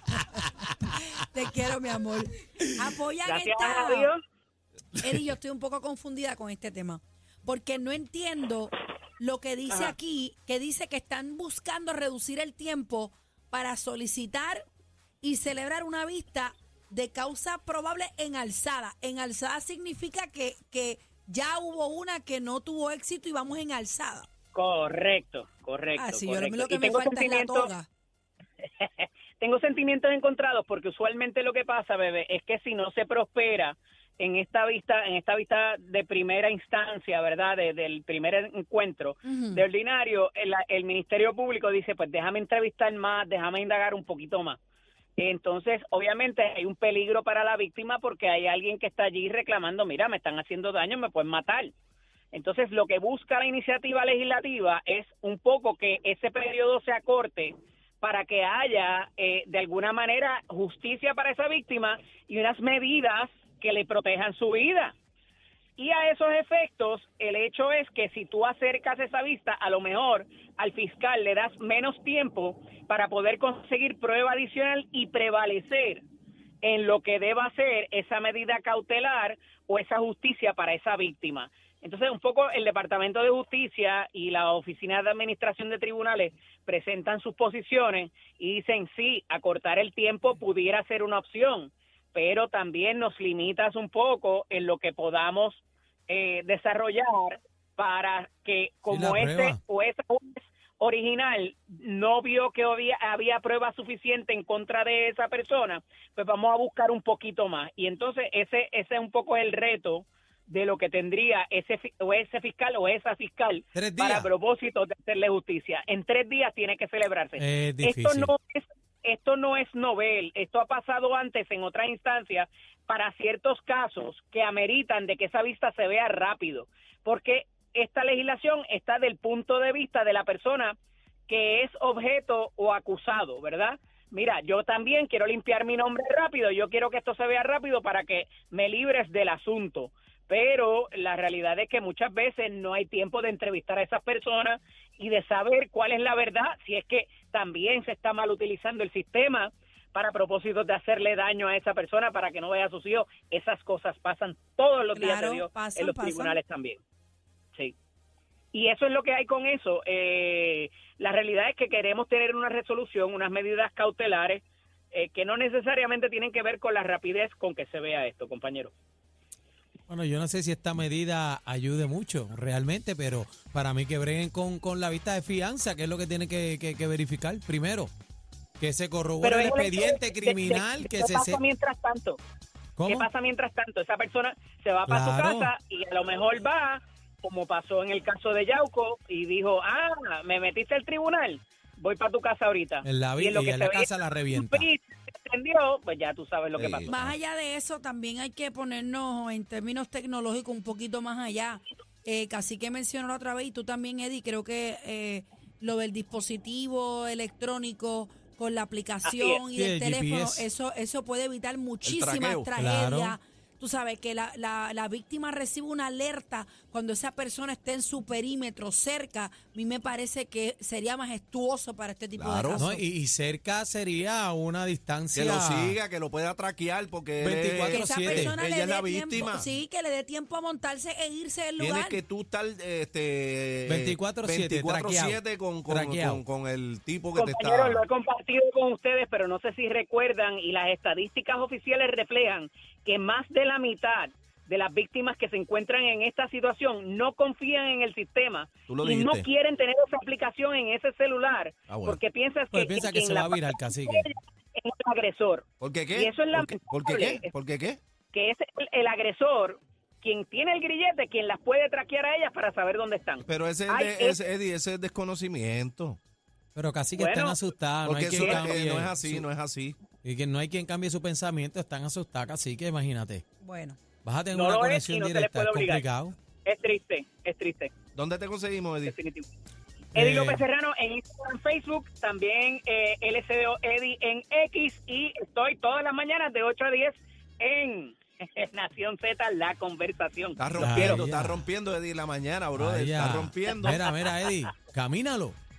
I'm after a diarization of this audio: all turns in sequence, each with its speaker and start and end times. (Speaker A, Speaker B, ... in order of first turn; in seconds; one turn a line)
Speaker A: 1.1-4.1
Speaker B: 3.2-4.2
Speaker A: 5.0-14.6
Speaker A: 15.2-24.3
Speaker B: 24.5-27.7
Speaker A: 25.9-27.9
Speaker B: 28.6-44.6
Speaker A: 39.2-39.6
Speaker B: 45.2-51.7
Speaker B: 52.3-64.9
Speaker B: 65.8-76.0
Speaker B: 76.6-130.8
Speaker C: 98.9-99.6
Speaker C: 113.7-114.3
Speaker C: 117.4-118.3
Speaker B: 131.3-156.8
Speaker A: 154.9-156.4
Speaker B: 158.5-168.7
Speaker C: 169.9-177.9
Speaker C: 178.6-181.4
Speaker B: 179.2-182.2
Speaker C: 182.8-183.1
Speaker B: 182.8-197.0
Speaker C: 184.9-185.5
Speaker C: 192.8-194.7
Speaker D: 196.6-197.2
Speaker A: 196.9-222.8
Speaker B: 209.0-209.4
Speaker C: 209.5-210.4
Speaker D: 211.8-212.5
Speaker C: 212.6-213.2
Speaker D: 222.2-222.7
Speaker C: 222.5-225.8
Speaker D: 225.1-229.5
Speaker C: 227.2-228.4
Speaker A: 227.7-232.0
Speaker D: 231.6-237.8
Speaker C: 233.7-236.2
Speaker B: 237.2-257.3
Speaker D: 248.7-249.3
Speaker D: 251.7-252.0
Speaker C: 252.5-254.1
Speaker D: 255.6-257.8
Speaker B: 258.1-264.2
Speaker D: 263.3-266.0
Speaker C: 266.5-269.2
Speaker B: 266.9-267.4
Speaker D: 267.8-269.8
Speaker B: 268.1-268.5
Speaker C: 270.0-273.2
Speaker A: 273.4-273.8
Speaker C: 274.0-276.2
Speaker B: 274.3-275.8
Speaker B: 276.4-277.7
Speaker D: 277.9-278.9
Speaker B: 278.8-279.3
Speaker B: 279.9-291.0
Speaker C: 279.9-280.4
Speaker D: 290.4-293.8
Speaker C: 290.6-291.5
Speaker C: 292.5-295.4
Speaker B: 293.6-294.1